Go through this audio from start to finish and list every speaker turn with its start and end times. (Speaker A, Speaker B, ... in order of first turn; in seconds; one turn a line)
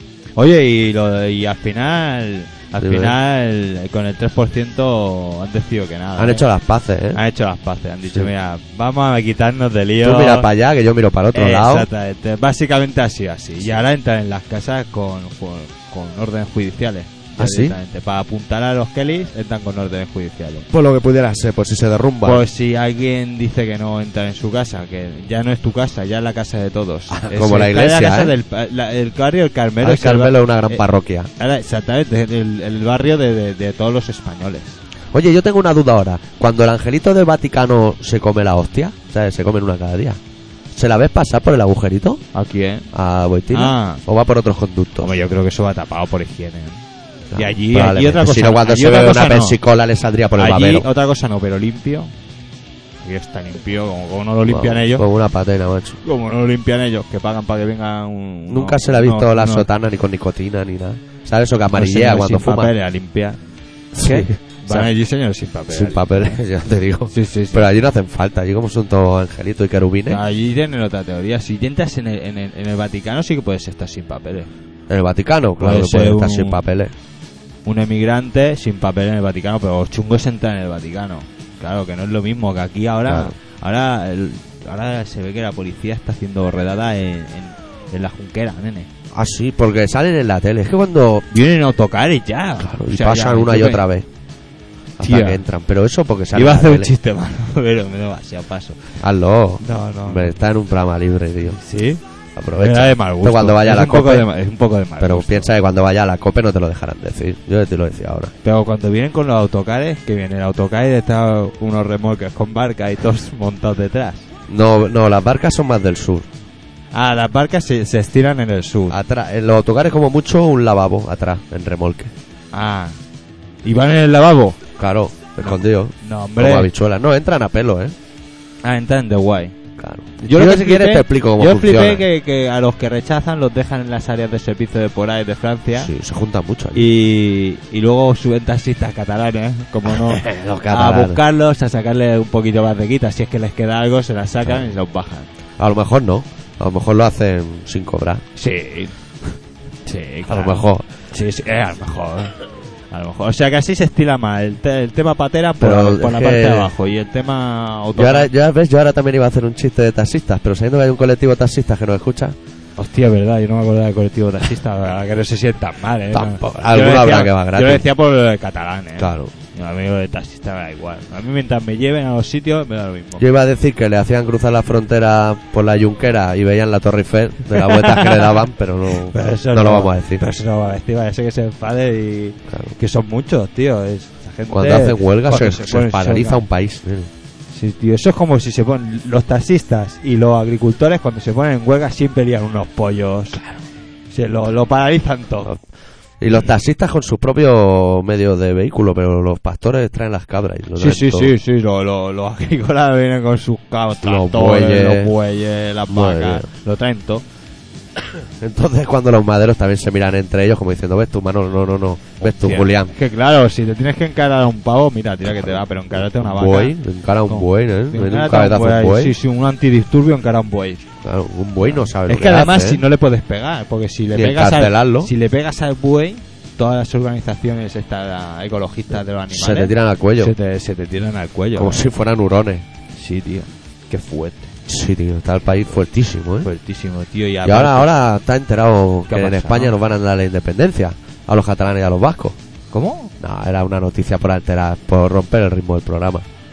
Speaker A: 0.3-6.4
Speaker B: 2.8-3.1
Speaker B: 6.2-7.2
Speaker A: 7.1-10.5
Speaker B: 10.0-11.9
Speaker A: 11.3-20.7
Speaker B: 17.4-17.8
Speaker B: 20.7-22.4
Speaker A: 22.2-30.8
Speaker B: 27.1-28.3
Speaker B: 29.8-31.3
Speaker A: 31.4-34.8
Speaker B: 35.1-40.2
Speaker B: 40.7-42.2
Speaker A: 42.3-42.8
Speaker B: 42.9-45.1
Speaker A: 43.5-44.0
Speaker A: 45.0-46.8
Speaker B: 47.3-50.9
Speaker A: 47.4-49.6
Speaker A: 50.4-52.1
Speaker A: 53.0-55.0
Speaker B: 54.5-56.0
Speaker A: 56.0-59.7
Speaker B: 58.5-62.7
Speaker A: 61.7-63.4
Speaker B: 63.9-64.9
Speaker A: 64.0-66.4
Speaker B: 65.7-70.2
Speaker A: 67.1-67.7
Speaker A: 70.1-74.5
Speaker B: 74.9-76.9
Speaker A: 75.6-76.6
Speaker A: 77.6-88.9
Speaker B: 83.1-83.3
Speaker B: 89.1-91.2
Speaker A: 91.3-93.8
Speaker B: 92.6-94.0
Speaker B: 95.0-96.9
Speaker A: 95.0-95.4
Speaker A: 96.3-99.0
Speaker B: 99.0-101.6
Speaker A: 99.6-100.4
Speaker A: 101.5-102.0
Speaker B: 102.3-104.3
Speaker A: 102.6-105.5
Speaker B: 105.0-108.3
Speaker A: 108.4-114.3
Speaker B: 114.5-116.3
Speaker A: 116.9-119.0
Speaker B: 118.9-122.1
Speaker A: 122.5-123.0
Speaker A: 123.6-124.6
Speaker B: 124.8-127.9
Speaker A: 125.4-126.7
Speaker A: 128.6-129.6
Speaker B: 129.8-132.0
Speaker A: 130.3-135.9
Speaker B: 135.7-136.9
Speaker A: 136.7-145.3
Speaker B: 139.9-141.2
Speaker B: 145.6-148.2
Speaker A: 148.3-148.9
Speaker A: 149.8-152.4
Speaker B: 150.2-150.8
Speaker A: 152.9-158.3
Speaker B: 155.6-156.7
Speaker B: 157.9-162.3
Speaker A: 162.8-173.2
Speaker B: 166.1-167.8
Speaker B: 169.0-169.3
Speaker B: 173.2-180.2
Speaker A: 177.5-178.4
Speaker A: 179.1-186.4
Speaker B: 182.5-182.7
Speaker B: 184.5-187.1
Speaker A: 187.5-193.5
Speaker A: 194.1-195.5
Speaker B: 196.2-201.3
Speaker A: 200.8-207.2
Speaker B: 204.0-205.1
Speaker B: 205.9-206.5
Speaker B: 208.0-212.9
Speaker A: 212.2-216.8
Speaker B: 215.2-219.1
Speaker A: 217.3-220.8
Speaker B: 221.0-222.8
Speaker A: 221.7-231.9
Speaker B: 224.1-225.1
Speaker B: 229.3-230.3
Speaker B: 231.5-232.6
Speaker A: 232.9-234.5
Speaker B: 234.7-236.5
Speaker A: 236.4-237.9
Speaker B: 237.4-242.4
Speaker A: 239.1-239.7
Speaker A: 242.7-243.1
Speaker B: 243.2-246.2